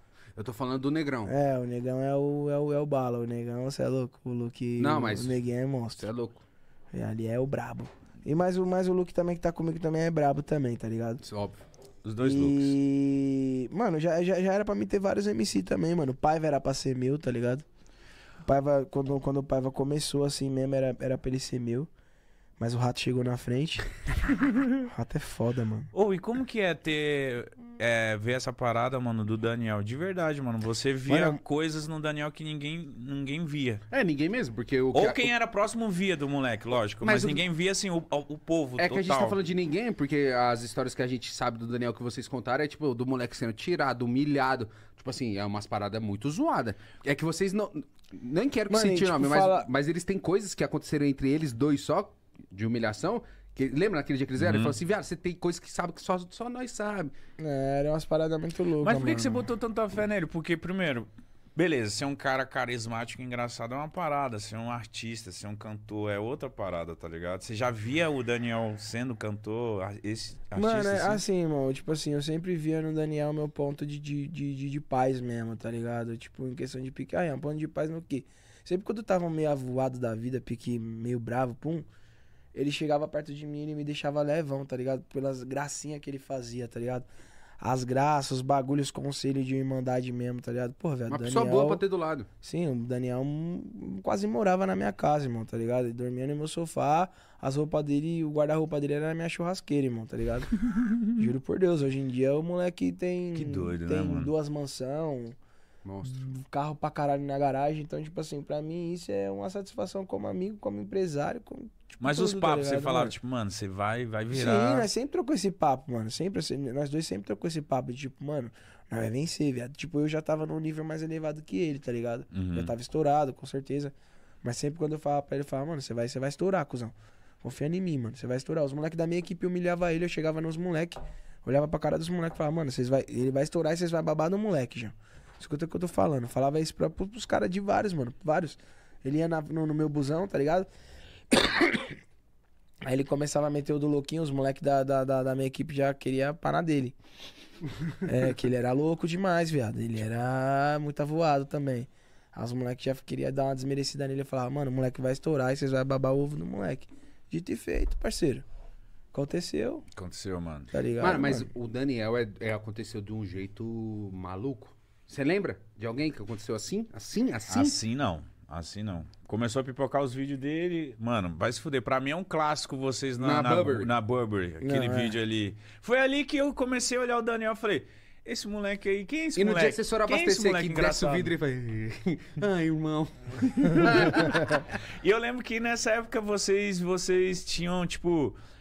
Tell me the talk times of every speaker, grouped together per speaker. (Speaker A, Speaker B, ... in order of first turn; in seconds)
Speaker A: 0.3-1.3, 4.8-5.4, 5.9-6.4, 11.2-11.6, 33.9-35.3, 37.0-37.4, 38.8-57.1, 91.1-92.3, 105.8-106.2, 161.0-167.8, 173.2-173.9, 179.3-184.6
Speaker B: 1.2-6.1, 6.9-11.2, 12.2-17.6, 18.4-21.9, 22.6-23.9, 24.8-25.9, 31.1-31.4, 48.7-49.7, 57.4-59.5, 70.5-81.9, 82.5-87.1, 87.6-91.8, 92.4-105.3, 106.0-113.1, 114.3-140.7, 141.3-142.0, 142.8-146.9, 148.0-158.4, 159.1-159.8, 160.7-161.5, 174.6-175.1
Speaker C: 12.0-12.8, 24.4-24.7, 25.9-33.8, 34.9-39.4, 54.4-54.8, 58.8-71.2, 103.3-104.3, 112.0-114.9, 122.3-122.7, 159.9-160.7, 167.5-181.3, 183.6-188.4